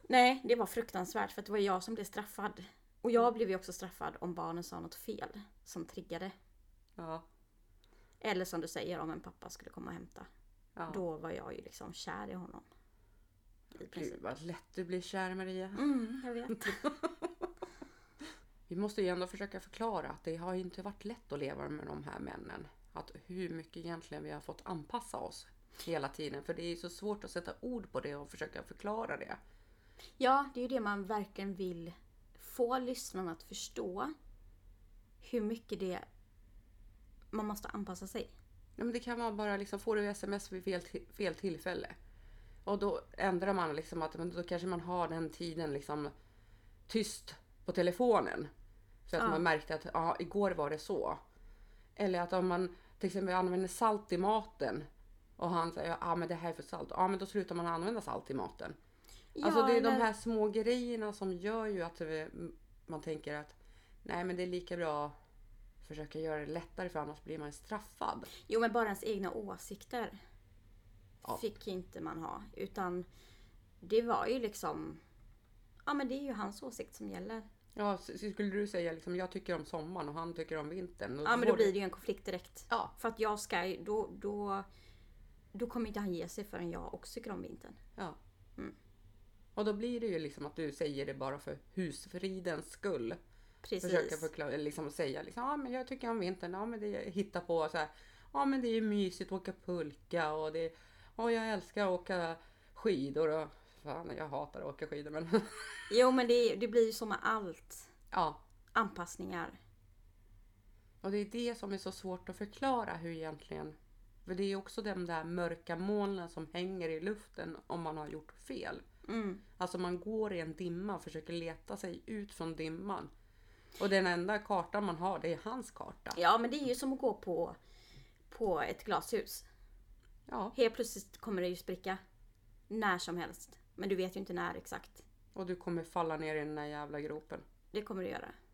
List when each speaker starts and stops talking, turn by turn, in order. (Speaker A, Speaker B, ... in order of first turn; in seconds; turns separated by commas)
Speaker A: 0.1-6.3, Speaker B: 7.0-7.2, Speaker A: 8.2-10.3, Speaker B: 10.8-11.0, Speaker A: 10.9-12.7, Speaker A: 13.8-14.2, Speaker B: 13.8-15.9, Speaker A: 15.8-16.9, Speaker B: 16.5-17.5, Speaker B: 18.7-29.4, Speaker A: 30.2-34.1, Speaker A: 35.2-36.0, Speaker A: 37.3-38.3, Speaker B: 38.8-42.0, Speaker B: 42.6-46.1, Speaker B: 46.9-48.5, Speaker B: 49.1-51.2, Speaker A: 49.2-49.4, Speaker B: 52.0-54.9, Speaker B: 55.4-58.8, Speaker A: 59.4-60.1, Speaker B: 59.4-65.1, Speaker B: 65.8-68.3, Speaker A: 68.5-70.2, Speaker A: 71.3-73.1, Speaker A: 73.8-75.0, Speaker A: 75.9-77.5, Speaker B: 77.8-81.7, Speaker A: 81.2-84.7, Speaker A: 85.5-87.8, Speaker B: 89.6-93.2, Speaker A: 93.6-94.3, Speaker B: 93.8-105.9, Speaker A: 105.9-107.9, Speaker B: 108.1-108.4, Speaker A: 108.7-109.6, Speaker B: 111.0-118.8, Speaker A: 119.1-119.4, Speaker B: 119.6-123.1, Speaker B: 123.8-126.2, Speaker A: 126.2-127.6, Speaker A: 128.3-129.5, Speaker B: 130.3-130.6, Speaker A: 130.5-132.0, Speaker A: 132.7-135.1, Speaker B: 135.3-137.4, Speaker A: 137.7-138.4